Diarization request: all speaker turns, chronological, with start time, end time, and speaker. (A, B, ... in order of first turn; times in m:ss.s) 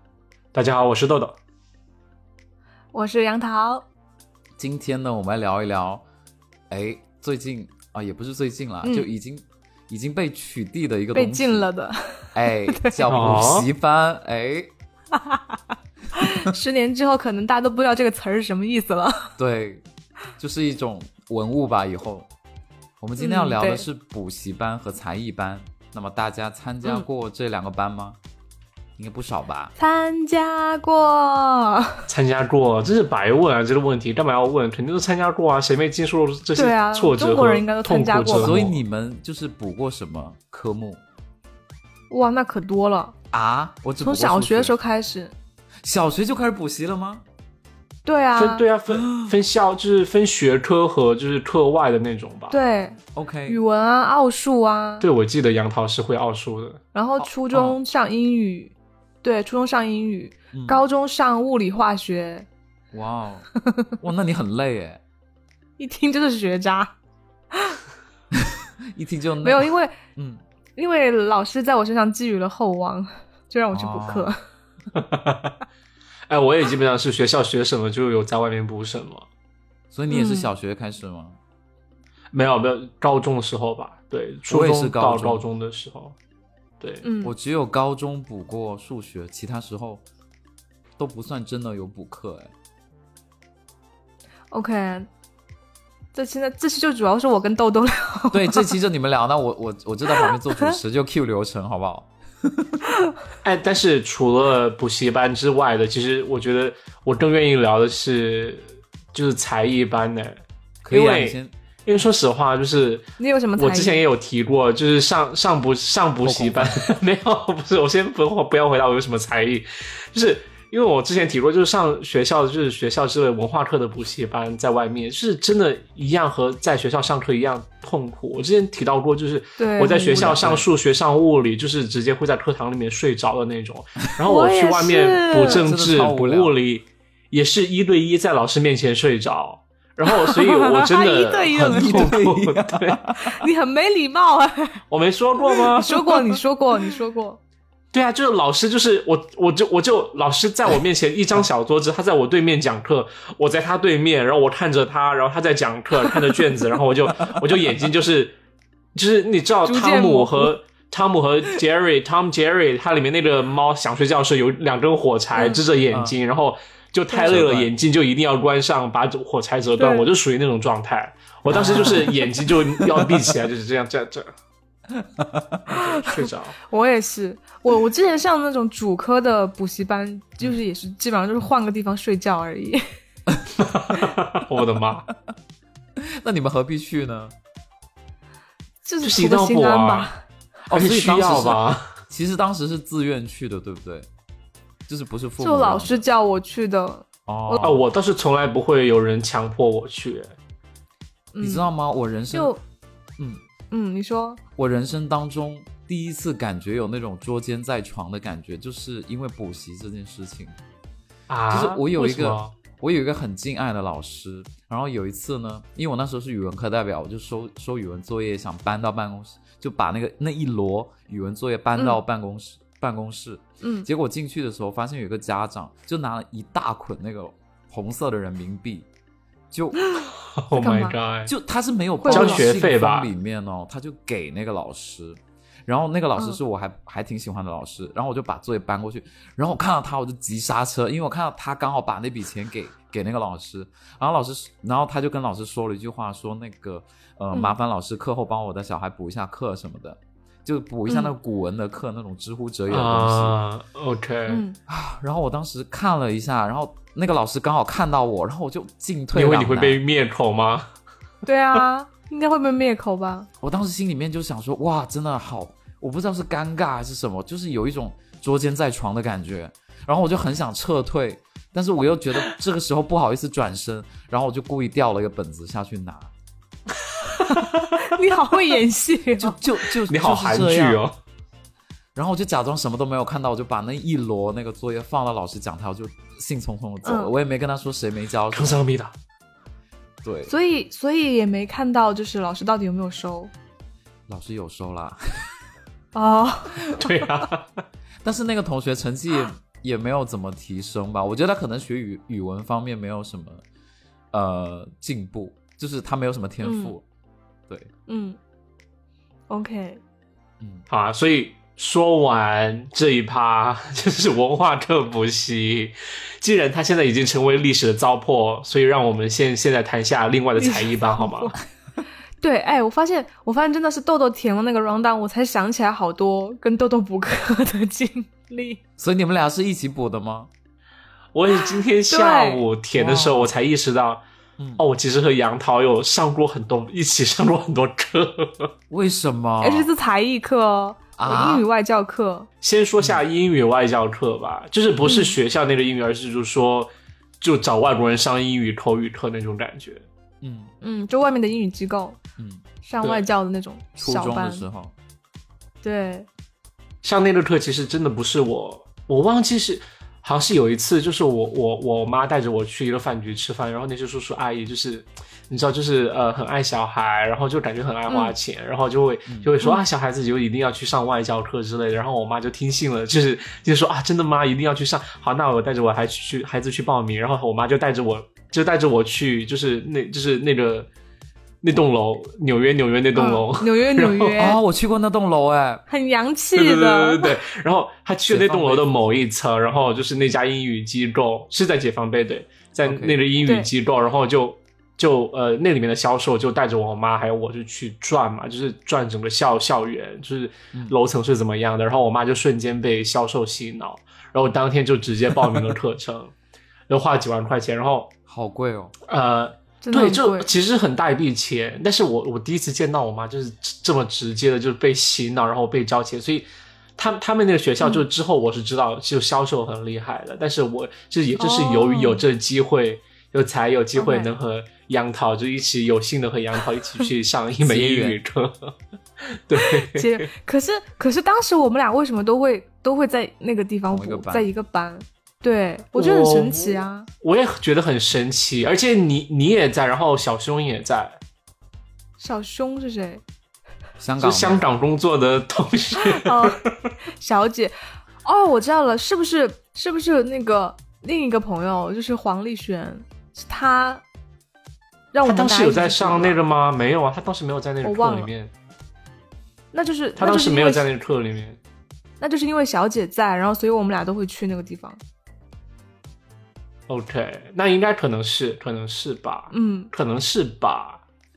0:00.5-0:01.3 A
0:02.9-0:03.8 B
0:04.6-0:06.0 C
0:06.7-0:11.7 C
0:08.8-0:09.1 B
0:11.1-0:13.0 B
0:12.3-0:14.7 C
0:13.1-0:13.7 A
0:15.2-0:15.6 B
0:16.2-0:19.3 B
0:19.4-0:19.8 C
0:20.4-0:22.3 C
0:23.0-0:28.2 C
0:23.2-0:23.8 B
0:29.0-0:29.7 C
0:29.8-0:32.0 B
0:32.1-0:38.8 A
0:36.5-0:38.6 B
0:38.4-0:41.0 C
0:42.1-0:43.1 B
0:43.3-0:44.8 C
0:44.0-0:45.3 B
0:45.8-0:47.2 C
0:48.0-0:48.6 B
0:48.4-0:52.6 A
0:48.9-0:49.3 C
0:52.5-0:55.0 B
0:53.1-0:53.6 C
0:55.0-0:56.8 A
0:56.9-1:02.5 B
0:57.2-0:57.8 C
1:00.5-1:00.8 C
1:02.9-1:03.5 C
1:03.6-1:03.9 B
1:04.0-1:05.0 C
1:05.8-1:06.9 B
1:07.5-1:07.8 B
1:08.3-1:10.4 C
1:09.4-1:09.9 B
1:10.8-1:14.4 B
1:13.7-1:14.3 C
1:14.9-1:15.5 A
1:16.3-1:19.2 A
1:19.9-1:21.4 C
1:20.1-1:20.5 B
1:22.3-1:26.1 A
1:24.5-1:25.4 C
1:27.0-1:27.3 B
1:27.2-1:30.0 C
1:31.0-1:32.5 C
1:34.5-1:35.1 B
1:36.1-1:38.7 B
1:38.3-1:42.8 C
1:40.1-1:40.7 B
1:43.4-2:23.0 A
1:50.8-1:51.5 C
1:53.2-1:54.0 B
1:56.2-1:56.8 C
2:09.6-2:10.4 B
2:10.2-2:10.7 C
2:14.2-2:15.6 B
2:15.5-2:16.5 C
2:20.1-2:22.1 B
2:21.6-2:23.3 C
2:23.2-2:24.8 B
2:24.9-2:26.3 A
2:25.4-2:27.4 B
2:27.9-2:38.4 A
2:38.9-2:54.3 A
2:39.6-2:40.5 B
2:45.4-2:45.6 B
2:45.9-2:46.2 C
2:47.2-2:47.7 C
2:49.8-2:50.1 B
2:51.5-2:53.3 C
2:51.6-2:52.2 B
2:54.9-2:55.6 C
2:55.7-3:02.8 B
2:55.7-2:56.5 A
3:03.6-3:05.1 A
3:06.0-3:07.3 C
3:08.8-3:10.2 B
3:09.0-3:10.1 A
3:10.7-3:14.1 C
3:10.7-3:11.8 A
3:14.9-3:16.0 C
3:15.4-3:17.7 B
3:17.3-3:17.8 C
3:17.6-3:20.3 A
3:21.3-3:21.7 B
3:21.4-3:22.5 C
3:22.3-3:22.6 B
3:23.2-3:23.4 C
3:23.7-3:24.4 B
3:24.6-3:30.6 C
3:31.3-3:32.5 A
3:31.5-3:48.9 C
3:41.8-3:42.0 B
3:43.6-3:43.9 B
3:49.5-3:49.9 C
3:49.9-3:51.0 B
3:50.4-3:51.3 A
3:51.3-4:13.3 C
3:52.0-3:52.5 B
3:52.1-3:53.1 A
4:10.9-4:11.1 B
4:12.7-4:14.4 A
4:14.3-4:14.6 B
4:14.7-4:19.8 C
4:19.1-4:20.7 A
4:21.2-4:23.3 B
4:23.4-4:36.1 C
4:37.8-4:39.4 B
4:39.2-4:40.8 C
4:39.9-4:40.9 A
4:41.9-4:48.6 C
4:46.8-4:47.1 B
4:48.3-4:48.9 A
4:50.0-4:50.3 C
4:50.3-4:53.3 B
4:54.1-4:55.3 C
4:55.9-4:57.0 B
4:56.7-4:57.6 A
4:58.0-5:03.4 C
5:04.1-5:06.8 C
5:06.4-5:06.7 B
5:07.9-5:08.2 B
5:09.3-5:09.8 B
5:10.4-5:10.6 C
5:10.7-5:21.3 A
5:20.4-5:21.4 B
5:22.2-5:28.6 B
5:28.8-5:30.3 C
5:31.1-5:34.0 A
5:31.3-5:32.4 B
5:32.7-5:33.3 C
5:34.4-5:34.6 C
5:34.6-5:38.5 A
5:38.7-5:39.7 C
5:39.4-5:42.3 B
5:41.0-5:41.4 C
5:42.4-5:46.7 A
5:44.8-5:45.1 B
5:47.2-5:49.8 A
5:50.2-5:50.5 C
5:50.6-5:52.0 B
5:52.2-5:52.4 C
5:52.6-5:54.4 B
5:52.8-5:53.1 A
5:53.8-5:54.7 C
5:55.6-5:56.1 B
5:56.8-6:20.7 A
6:07.9-6:08.1 B
6:09.0-6:09.3 C
6:21.4-6:24.2 A
6:22.9-6:24.4 B
6:24.2-6:25.6 C
6:25.7-6:27.1 B
6:26.3-6:46.1 A
6:28.1-6:28.9 C
6:32.6-6:33.0 C
6:46.7-6:47.9 A
6:48.1-6:48.7 C
6:48.9-7:08.5 A
6:49.6-6:50.3 B
7:01.2-7:02.0 B
7:03.8-7:04.1 B
7:07.4-7:08.0 C
7:09.1-7:10.1 A
7:09.4-7:16.9 B
7:13.7-7:14.3 C
7:15.7-7:21.0 A
7:22.0-7:23.0 B
7:23.8-7:24.4 C
7:24.0-7:26.5 A
7:25.8-7:26.4 B
7:27.0-7:33.8 B
7:34.9-7:36.2 B
7:35.0-7:38.3 A
7:37.6-7:38.1 B
7:39.5-7:40.6 B
7:40.0-7:41.4 A
7:42.0-7:44.8 B
7:46.7-7:50.8 A
7:49.3-7:49.7 B